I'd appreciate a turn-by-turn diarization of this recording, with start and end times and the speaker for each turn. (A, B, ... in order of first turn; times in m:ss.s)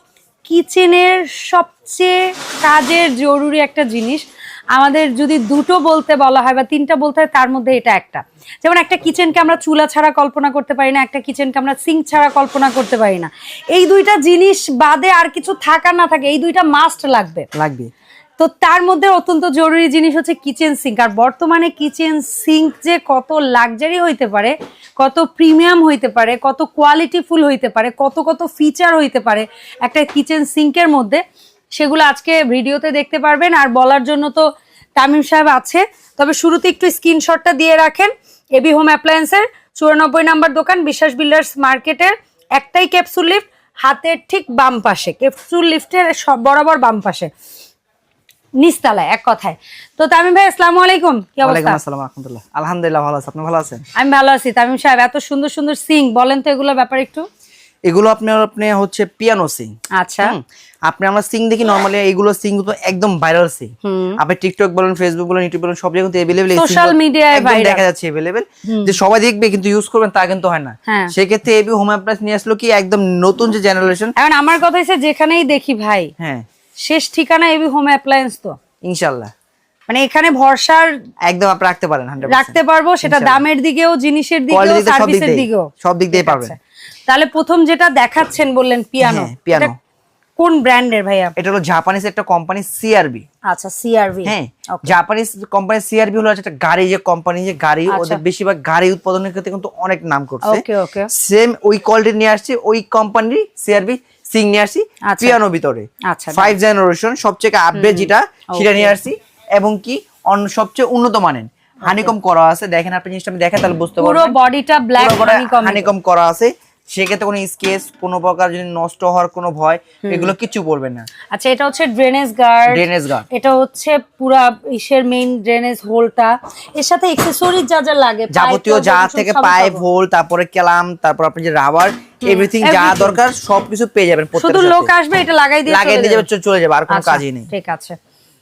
0:00.4-0:17.5 A
0:17.5-0:17.9 B
0:18.4-0:31.2 A
0:31.8-0:47.3 A
0:48.6-0:51.8 A
0:51.4-0:53.8 B
0:54.0-0:57.3 A
0:57.8-1:14.1 B
1:00.0-1:00.4 A
1:03.8-1:04.2 A
1:06.5-1:07.8 A
1:08.6-1:09.0 A
1:10.9-1:11.1 A
1:14.2-1:16.1 A
1:16.2-1:16.4 B
1:16.8-1:18.6 A
1:18.8-1:19.3 B
1:19.9-1:20.9 A
1:21.2-1:23.4 B
1:22.3-1:29.7 A
1:24.5-1:26.5 B
1:29.0-1:29.7 B
1:30.4-1:31.3 A
1:31.4-1:33.2 B
1:33.4-1:35.0 A
1:34.2-1:54.4 B
1:37.9-1:38.2 A
1:40.4-1:41.1 A
1:45.0-1:45.4 A
1:46.1-1:46.5 A
1:47.7-1:48.9 A
1:51.8-1:52.1 A
1:54.0-1:55.9 A
1:55.0-2:01.1 B
2:00.0-2:00.3 A
2:01.3-2:09.8 A
2:02.7-2:03.3 B
2:08.3-2:14.9 B
2:12.2-2:13.2 A
2:14.4-2:16.2 A
2:15.6-2:17.5 B
2:16.9-2:18.0 A